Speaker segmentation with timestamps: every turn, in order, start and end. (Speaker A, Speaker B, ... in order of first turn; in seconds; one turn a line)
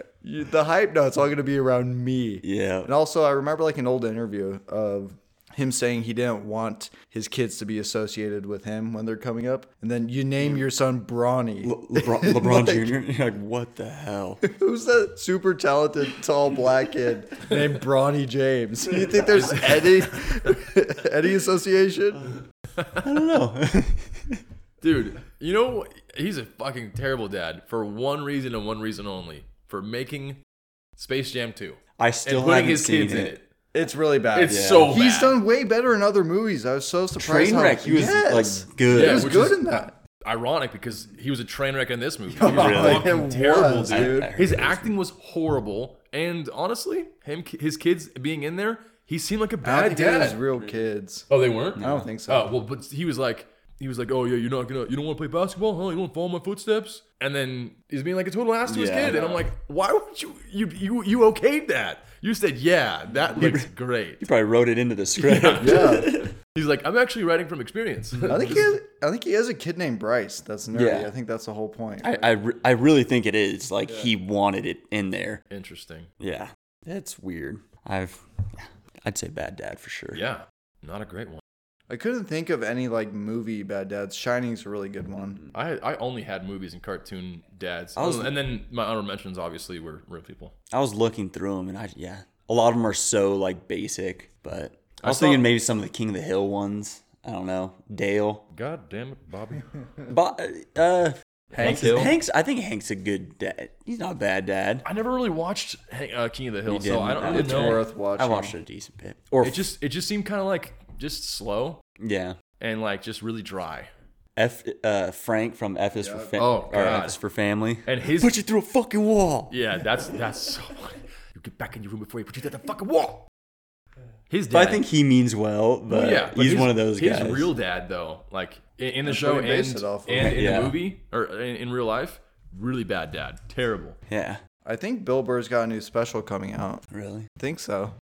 Speaker A: 0.2-12.9
Speaker B: 2.4-2.9
Speaker B: 11.6-14.4
Speaker A: 14.4-22.4
Speaker C: 19.3-20.5
Speaker C: 22.8-23.2
Speaker B: 23.0-24.4
Speaker C: 24.8-30.4
Speaker C: 31.0-33.4
Speaker B: 32.0-33.4
Speaker A: 33.7-39.9
Speaker C: 34.3-35.4
Speaker B: 34.5-35.0
Speaker B: 37.2-39.4
Speaker C: 38.9-50.5
Speaker A: 42.3-44.3
Speaker B: 42.4-43.1
Speaker B: 43.9-44.9
Speaker A: 49.6-51.3
Speaker C: 51.3-64.2
Speaker B: 51.8-52.1
Speaker A: 51.8-52.5
Speaker B: 58.6-59.2
Speaker A: 59.1-59.4
Speaker B: 63.3-63.7
Speaker B: 64.2-66.3
Speaker C: 65.2-68.7
Speaker A: 65.6-66.1
Speaker B: 68.3-68.6
Speaker A: 68.3-72.3
Speaker B: 70.7-71.1
Speaker B: 72.0-75.4
Speaker A: 73.8-74.1
Speaker C: 75.5-76.1
Speaker B: 76.2-80.2
Speaker C: 80.1-81.4
Speaker A: 81.9-85.4
Speaker C: 85.5-90.5
Speaker B: 88.0-88.3
Speaker B: 90.7-98.4
Speaker C: 95.0-95.5
Speaker C: 98.5-99.8
Speaker B: 100.1-104.8
Speaker A: 101.5-102.1
Speaker C: 104.8-107.8
Speaker B: 106.7-109.7
Speaker A: 107.2-108.6
Speaker C: 109.4-111.8
Speaker B: 112.0-112.4
Speaker C: 112.6-113.9
Speaker B: 114.3-119.5
Speaker A: 116.0-116.5
Speaker C: 116.4-117.2
Speaker C: 117.8-118.4
Speaker C: 119.5-123.3
Speaker C: 124.3-124.8
Speaker B: 124.5-127.5
Speaker C: 125.9-134.0
Speaker A: 129.0-130.4
Speaker B: 130.2-130.8
Speaker B: 134.1-134.4
Speaker A: 134.6-136.8
Speaker B: 136.9-137.3
Speaker A: 137.4-137.9